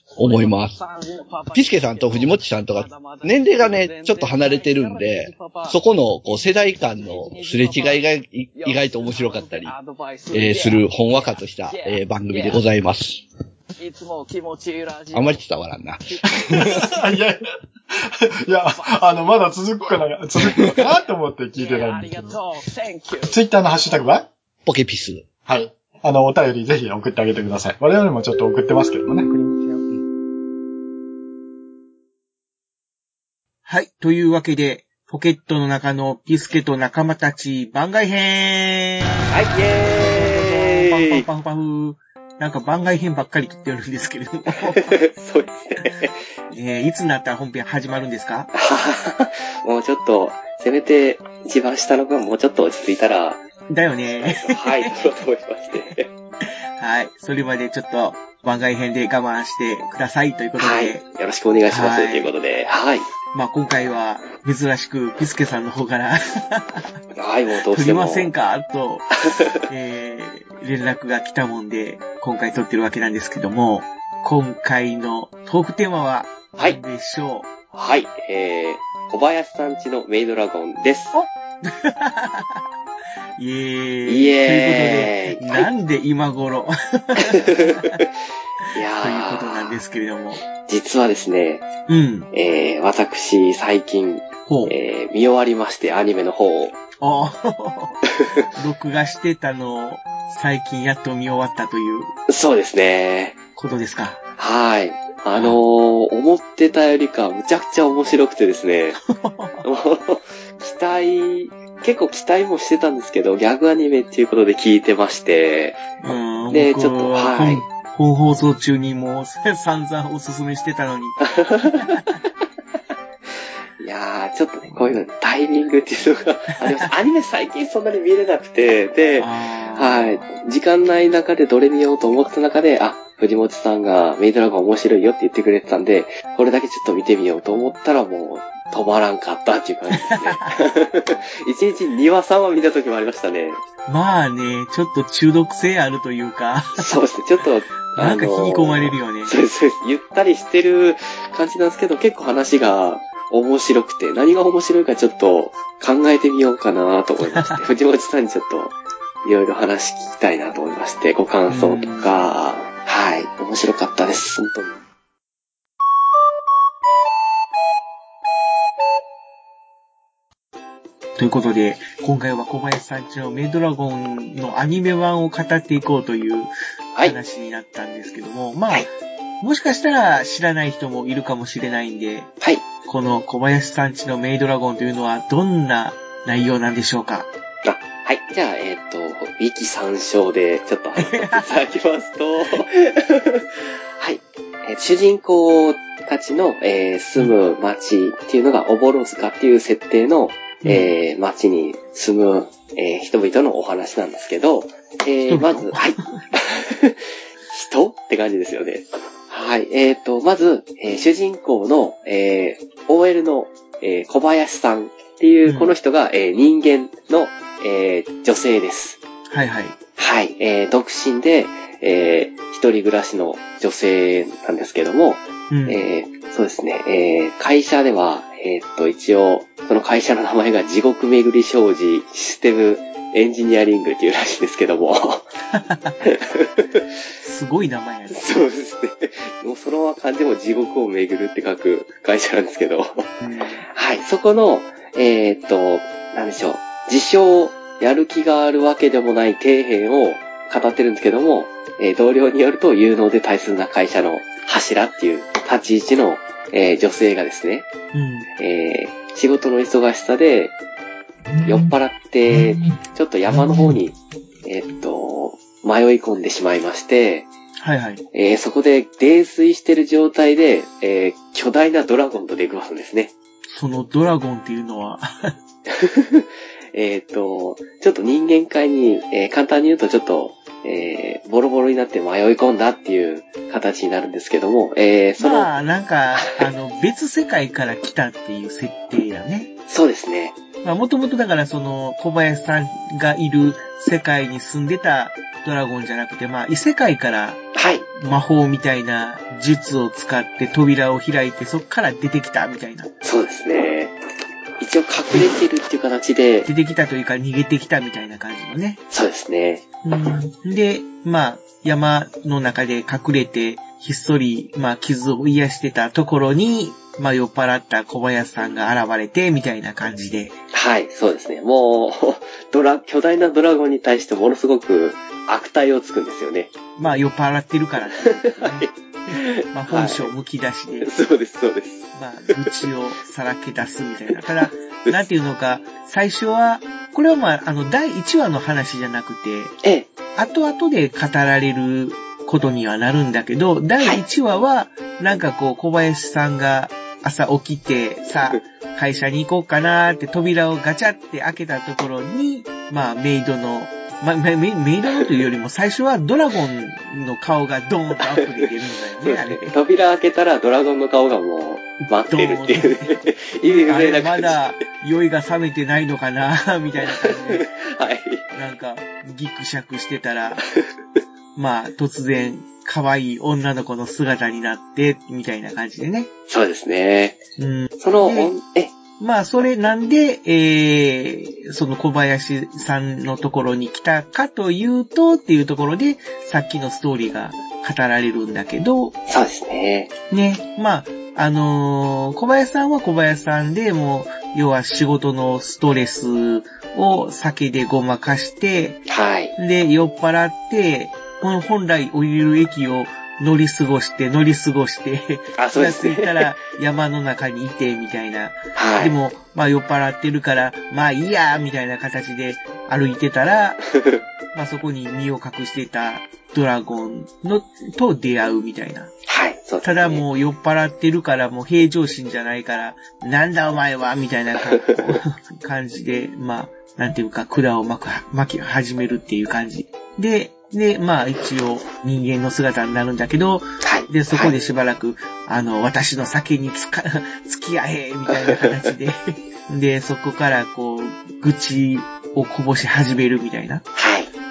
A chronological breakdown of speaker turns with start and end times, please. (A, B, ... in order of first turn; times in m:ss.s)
0:00.2-0:00.8 A
0:00.2-0:12.7 B
0:01.5-0:09.8 A
0:10.3-0:13.2 A
0:13.8-0:15.5 B
0:15.1-0:17.0 A
0:16.1-0:17.0 B
0:16.4-0:17.4 C
0:18.0-0:22.4 C
0:18.7-0:19.3 B
0:20.7-0:20.9 B
0:21.6-0:23.3 B
0:23.2-0:24.3 C
0:24.7-0:25.3 A
0:25.5-0:29.4 C
0:33.7-0:45.0 D
0:39.3-0:41.2 E
0:44.5-0:46.2 E
0:46.5-0:48.5 D
0:48.5-0:53.5 E
0:53.7-0:55.0 D
0:54.1-0:56.1 E
0:56.8-1:01.0 D
1:00.6-1:03.0 E
1:01.7-1:02.3 D
1:03.3-1:07.0 D
1:07.2-1:08.3 E
1:07.7-1:09.1 D
1:09.3-1:09.6 E
1:09.7-1:17.5 D
1:17.7-1:21.2 E
1:21.1-1:22.6 D
1:23.4-1:28.0 D
1:24.1-1:25.7 E
1:27.2-1:28.1 E
1:28.7-1:29.8 E
1:29.0-1:30.4 D
1:30.6-1:31.7 E
1:31.9-1:32.3 D
1:32.3-1:36.8 E
1:34.5-1:34.8 D
1:37.0-1:38.0 D
1:38.6-1:42.1 D
1:42.3-1:43.4 E
1:43.6-1:44.2 D
1:44.4-1:49.0 E
1:45.4-1:45.6 D
1:49.0-1:49.6 D
1:49.6-1:55.8 E
1:56.0-2:02.2 D
1:56.5-1:57.6 E
2:01.2-2:02.1 E
2:03.8-2:23.6 E
2:09.2-2:10.2 D
2:20.0-2:20.6 D
2:23.9-2:26.9 D
2:26.8-2:44.8 E
2:27.9-2:29.4 D
2:37.3-2:37.6 D
2:41.5-2:42.3 D
2:51.2-2:58.9 D
2:59.4-3:07.3 D
3:07.6-3:13.5 E
3:11.0-3:11.5 D
3:14.0-3:39.0 E
3:20.6-3:20.9 D
3:25.3-3:26.2 D
3:35.5-3:35.7 D
3:39.3-3:39.8 D
3:40.0-3:55.3 E
3:45.5-3:45.8 D
3:55.5-3:56.1 D
3:56.0-3:56.8 E
3:57.2-3:58.4 D
3:58.1-4:03.1 E
4:03.2-4:03.6 D
4:03.7-4:17.7 E
4:17.9-4:18.3 D
4:18.4-4:20.6 E
4:21.4-4:27.3 E
4:27.6-4:28.0 D
4:28.1-4:33.1 E
4:33.5-4:35.4 D
4:35.7-4:45.5 E
4:45.2-4:49.5 D
4:49.7-4:50.4 E
4:50.6-5:02.9 D
4:57.6-4:57.9 E
5:03.0-5:04.0 E
5:04.6-5:06.5 E
5:05.1-5:05.4 D
5:06.4-5:08.8 D
5:08.9-5:09.6 E
5:09.8-5:20.4 D
5:20.5-5:26.5 E
5:26.8-5:31.0 D
5:28.2-5:30.1 E
5:30.8-5:31.9 E
5:31.9-5:39.6 D
5:34.1-5:35.0 E
5:39.6-5:39.9 E
5:40.2-5:59.6 D
5:58.0-6:04.6 E
6:01.8-6:07.5 D
6:06.8-6:08.3 E
6:08.3-6:10.5 D
6:11.4-6:16.1 D
6:16.3-6:17.2 E
6:17.4-6:18.3 D
6:17.8-6:18.7 E
6:19.0-6:29.0 D
6:29.1-6:29.9 E
6:30.1-6:38.9 D
6:38.9-6:39.4 E
6:39.4-6:53.7 D
6:45.4-6:46.3 E
6:48.6-6:49.0 E
6:54.3-6:58.9 D
6:59.1-7:00.0 E
6:59.6-7:23.7 D
7:13.6-7:14.3 E
7:18.1-7:18.4 E
7:23.8-7:24.1 E